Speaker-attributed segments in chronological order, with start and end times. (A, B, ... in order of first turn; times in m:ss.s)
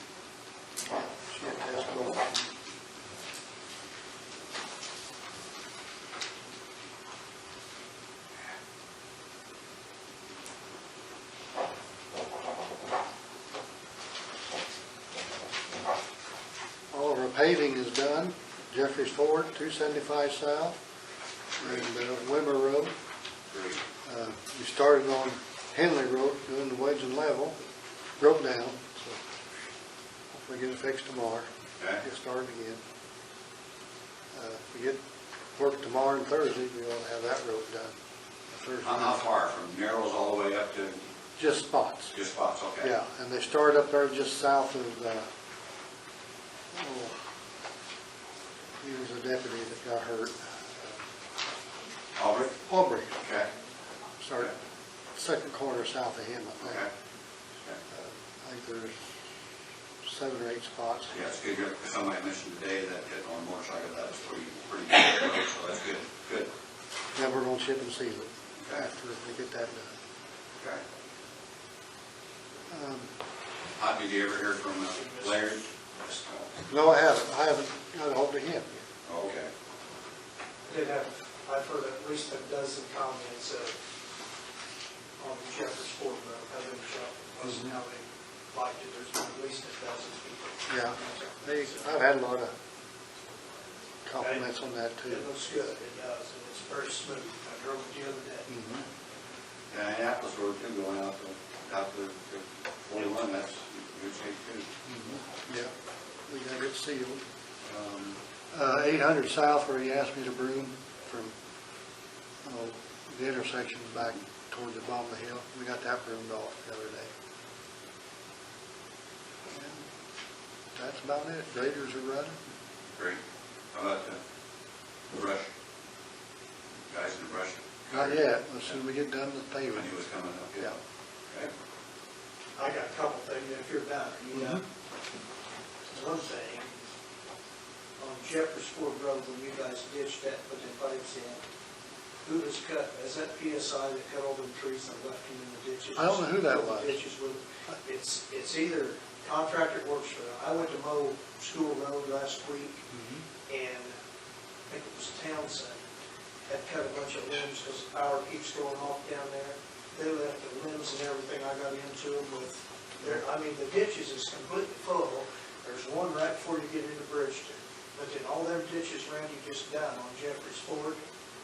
0:01.3-0:02.5 A
0:16.9-0:20.8 A
0:21.6-0:22.9 A
0:23.5-0:23.8 B
0:24.0-0:27.6 A
0:28.2-0:29.2 A
0:30.4-0:32.8 A
0:34.3-0:35.0 A
0:35.6-0:38.0 A
0:38.5-0:39.3 A
0:38.8-0:41.1 B
0:41.4-0:42.1 A
0:42.1-0:42.9 B
0:42.8-0:45.3 A
0:46.7-0:47.2 A
0:48.8-0:51.0 A
0:52.2-0:52.6 B
0:52.6-0:53.2 A
0:53.2-0:53.5 B
0:54.2-0:54.5 A
0:55.1-0:56.8 A
0:56.6-0:56.9 B
0:57.9-0:59.2 A
1:00.0-1:01.2 A
1:01.1-1:06.5 B
1:07.2-1:09.9 A
1:08.6-1:08.9 B
1:10.6-1:10.8 B
1:12.7-1:13.1 A
1:13.8-1:16.5 B
1:15.0-1:15.4 C
1:16.7-1:18.8 A
1:19.0-1:19.5 B
1:20.6-1:23.8 C
1:25.2-1:32.0 C
1:27.4-1:27.8 A
1:30.7-1:32.5 A
1:34.0-1:35.3 A
1:34.2-1:34.5 C
1:35.1-1:38.5 C
1:38.5-1:38.8 A
1:39.7-1:44.7 B
1:44.8-1:45.7 A
1:46.3-1:47.2 A
1:47.6-1:48.2 B
1:48.5-1:51.3 A
1:52.4-1:57.1 A
1:59.5-1:59.9 A
2:00.7-2:02.4 A
2:03.7-2:04.2 B
2:05.1-2:05.5 B
2:06.9-2:08.2 B
2:07.9-2:09.9 A
2:09.7-2:10.8 B
2:12.6-2:14.6 C
2:14.3-2:14.6 A
2:15.9-2:16.7 C
2:18.0-2:21.4 C
2:22.2-2:32.9 C
2:26.0-2:27.0 A
2:32.9-2:33.2 A
2:33.5-2:33.9 C
2:34.7-2:35.8 C
2:36.5-2:51.0 C